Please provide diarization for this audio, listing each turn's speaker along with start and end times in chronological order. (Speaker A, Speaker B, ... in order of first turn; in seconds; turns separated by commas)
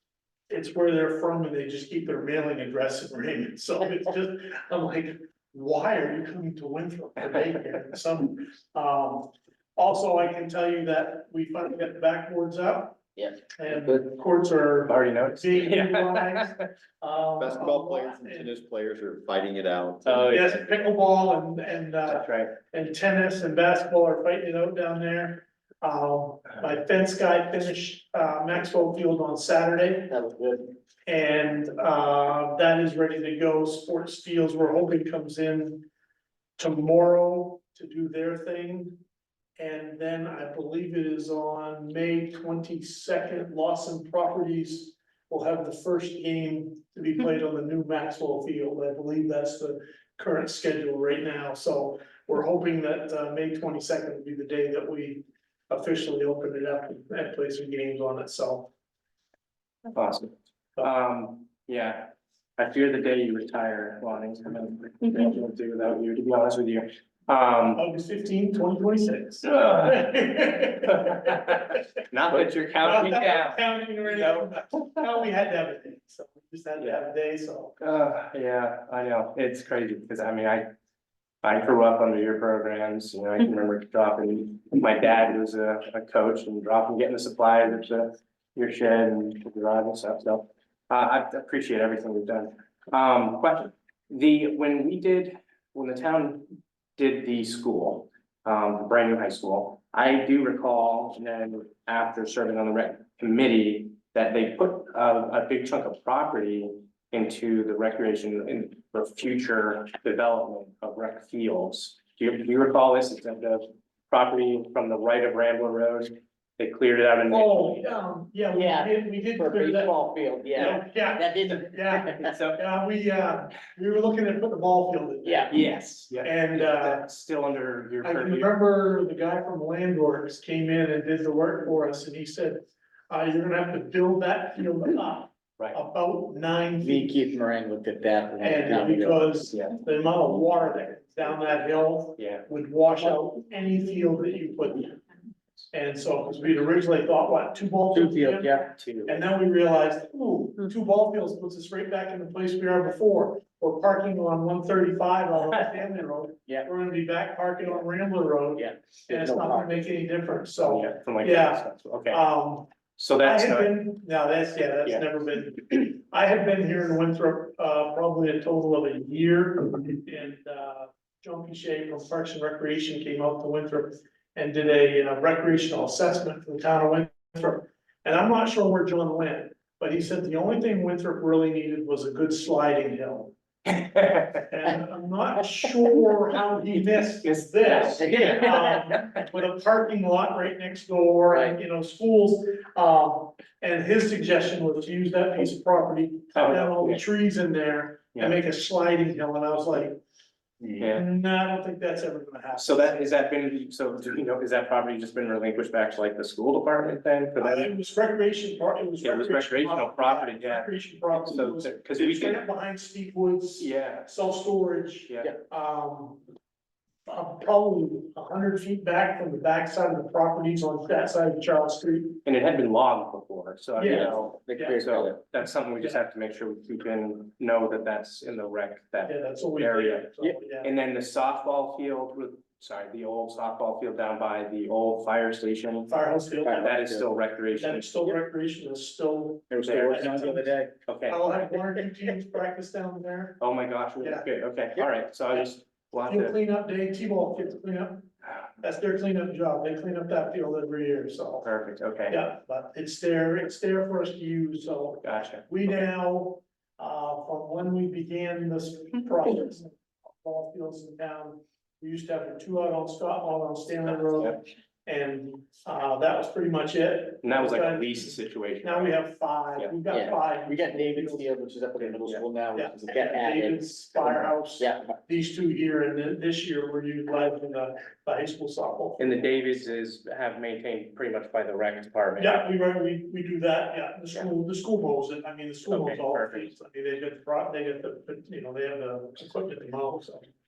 Speaker A: 0.5-13.0, Speaker B: 13.2-14.0, Speaker A: 13.6-18.6, Speaker C: 14.9-16.6, Speaker D: 17.4-20.7, Speaker C: 20.0-20.6, Speaker A: 20.2-30.1, Speaker C: 22.1-22.5, Speaker B: 30.1-30.7, Speaker A: 31.1-35.9, Speaker A: 36.6-39.0, Speaker A: 39.6-58.7, Speaker C: 59.9-67.8, Speaker A: 67.7-77.8, Speaker C: 69.4-70.2, Speaker C: 70.8-74.8, Speaker C: 77.8-80.7, Speaker C: 81.4-118.0, Speaker A: 117.3-125.6, Speaker B: 118.5-122.3, Speaker C: 122.2-122.6, Speaker B: 125.2-125.5, Speaker C: 125.5-128.5, Speaker A: 126.2-127.0, Speaker A: 128.0-137.2, Speaker B: 136.8-139.2, Speaker A: 138.4-145.0, Speaker C: 142.2-142.4, Speaker A: 145.7-162.7, Speaker B: 147.9-148.7, Speaker C: 148.8-149.1, Speaker B: 158.5-159.8, Speaker C: 160.6-162.2, Speaker C: 163.0-163.8, Speaker A: 163.2-183.3, Speaker C: 183.7-184.4, Speaker A: 184.5-200.0, Speaker C: 187.2-188.7, Speaker B: 187.9-189.2, Speaker B: 191.3-191.6, Speaker C: 196.3-197.0, Speaker C: 200.8-201.1, Speaker A: 200.9-202.9, Speaker C: 202.6-207.8, Speaker A: 207.4-216.2, Speaker C: 209.0-212.4, Speaker C: 213.6-214.1, Speaker C: 215.1-215.3, Speaker A: 217.1-222.2, Speaker C: 222.2-230.1, Speaker A: 223.8-224.8, Speaker B: 223.8-225.2, Speaker A: 229.1-230.7, Speaker C: 230.6-235.9, Speaker A: 235.9-236.7, Speaker B: 236.4-237.1, Speaker C: 236.5-237.9, Speaker A: 237.5-240.5, Speaker B: 239.5-240.7, Speaker C: 239.6-240.3, Speaker C: 240.9-241.2, Speaker A: 241.1-243.4, Speaker C: 243.4-246.4, Speaker A: 244.0-244.2, Speaker A: 246.0-251.5, Speaker C: 251.4-252.2, Speaker A: 252.1-271.3, Speaker C: 255.0-255.5, Speaker C: 263.8-264.4, Speaker C: 267.2-269.0, Speaker B: 269.9-274.9, Speaker C: 272.0-272.2, Speaker A: 272.5-279.6, Speaker C: 279.0-282.4, Speaker A: 282.2-290.3, Speaker C: 285.7-286.5